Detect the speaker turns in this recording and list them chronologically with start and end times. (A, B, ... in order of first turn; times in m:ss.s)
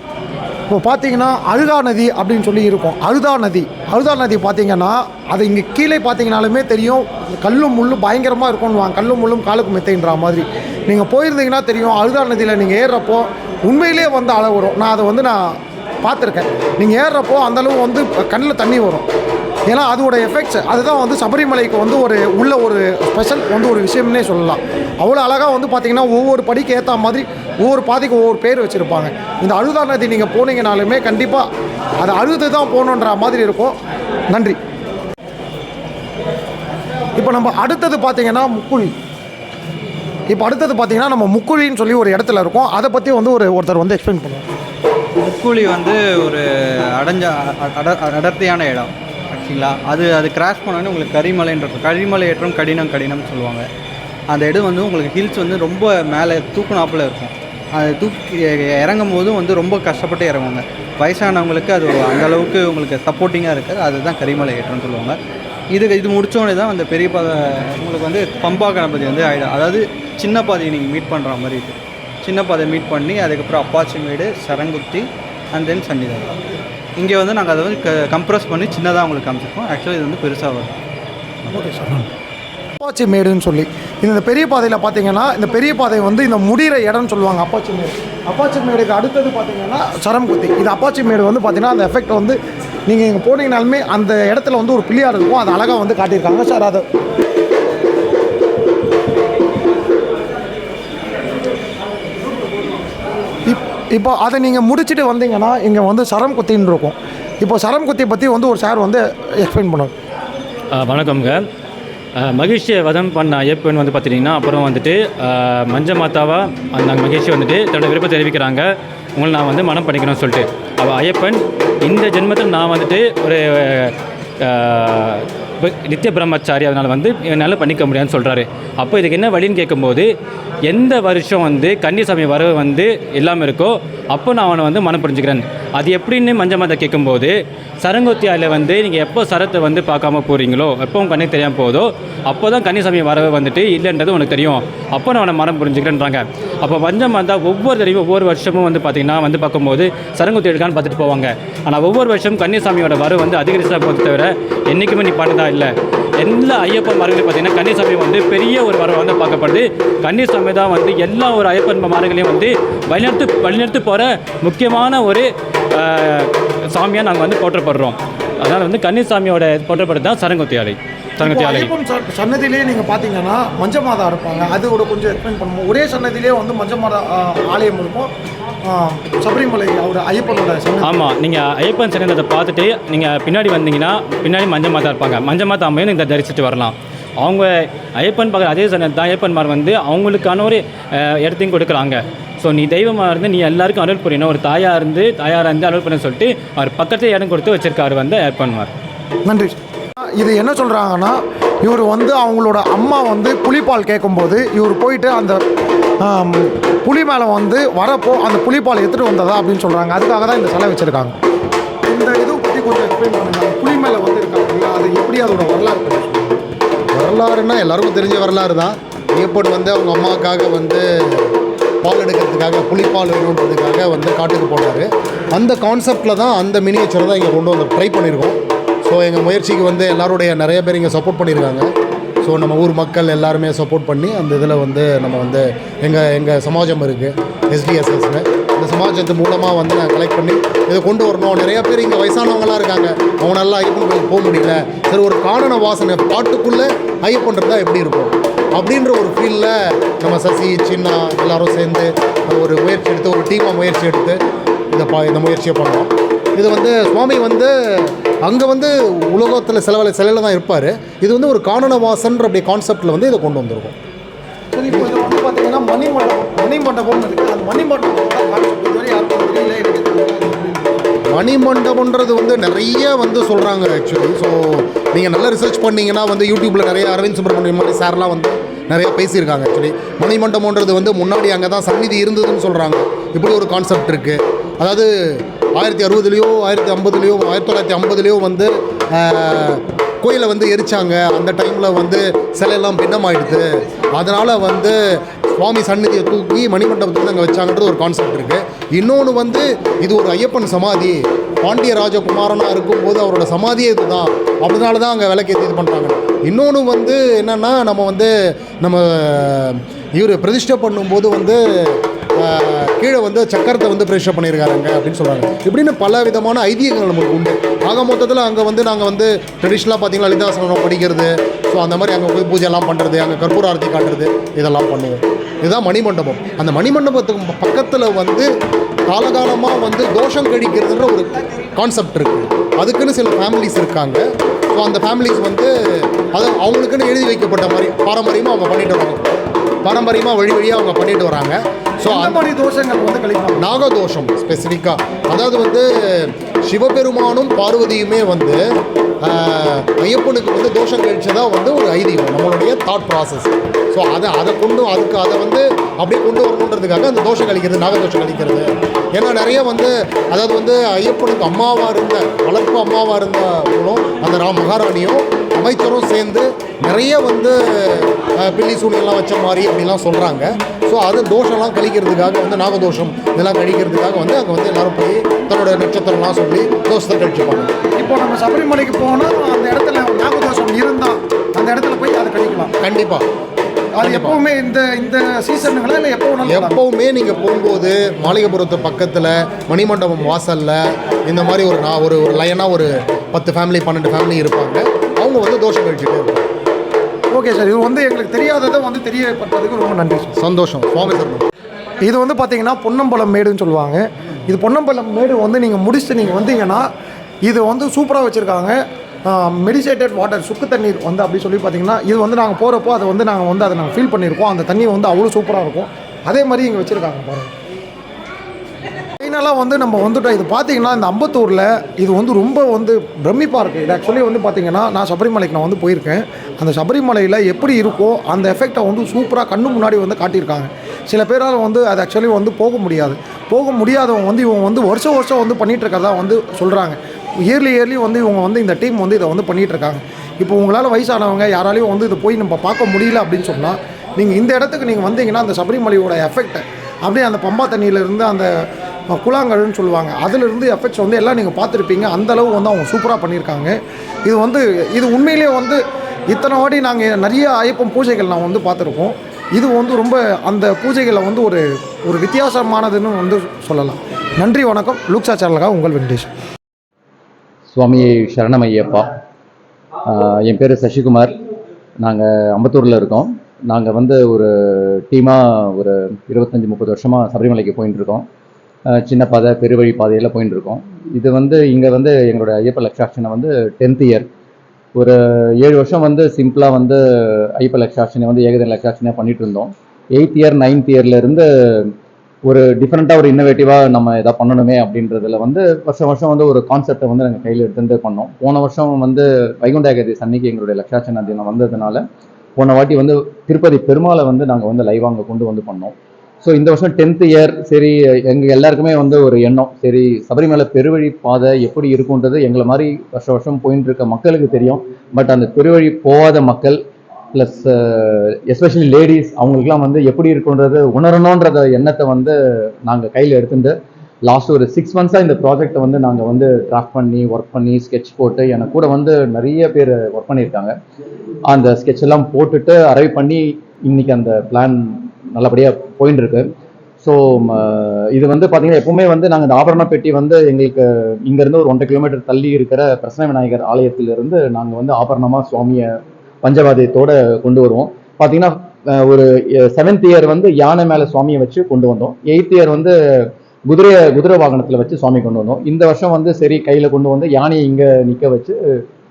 0:00.7-0:19.1 A
0:19.7-0:31.5 A
0:32.0-0:33.8 A
0:34.3-0:34.6 A
0:37.2-0:39.0 A
0:40.3-0:44.5 A
0:45.2-0:53.7 B
0:54.3-1:05.2 B
1:05.7-1:16.4 B
1:17.0-1:20.8 B
1:21.5-1:22.0 A
1:22.8-1:36.8 A
1:43.5-1:49.9 A
1:50.8-1:51.4 C
1:52.2-2:10.1 C
2:10.7-2:51.7 C
2:51.2-2:58.1 A
2:58.6-3:01.0 A
3:00.8-3:18.7 C
3:19.3-3:19.6 A
3:20.1-3:25.4 A
3:26.0-3:31.2 A
3:31.8-3:36.4 A
3:36.9-3:41.3 D
3:41.8-3:51.7 D
3:52.2-4:14.2 D
4:14.7-4:23.8 D
4:24.5-4:30.8 A
4:31.1-5:28.3 D
5:28.9-5:42.2 D
5:41.9-5:43.4 A
5:43.4-5:48.4 D
5:49.0-6:17.5 D
6:17.6-6:22.5 A
6:22.6-6:23.0 D
6:23.8-6:26.6 A
6:23.8-6:24.2 D
6:26.3-6:36.3 D
6:37.1-6:40.2 A
6:40.2-6:41.2 D
6:41.8-6:46.7 A
6:47.2-6:57.3 A
6:59.0-7:28.3 A
7:28.9-7:46.1 A
7:47.5-7:49.0 E
7:49.8-7:51.2 E
7:51.8-7:58.1 E
7:58.7-8:04.1 E
8:04.8-8:11.7 E
8:12.2-8:21.8 E
8:22.4-8:36.6 E
8:37.1-8:50.6 E
8:51.3-9:18.6 E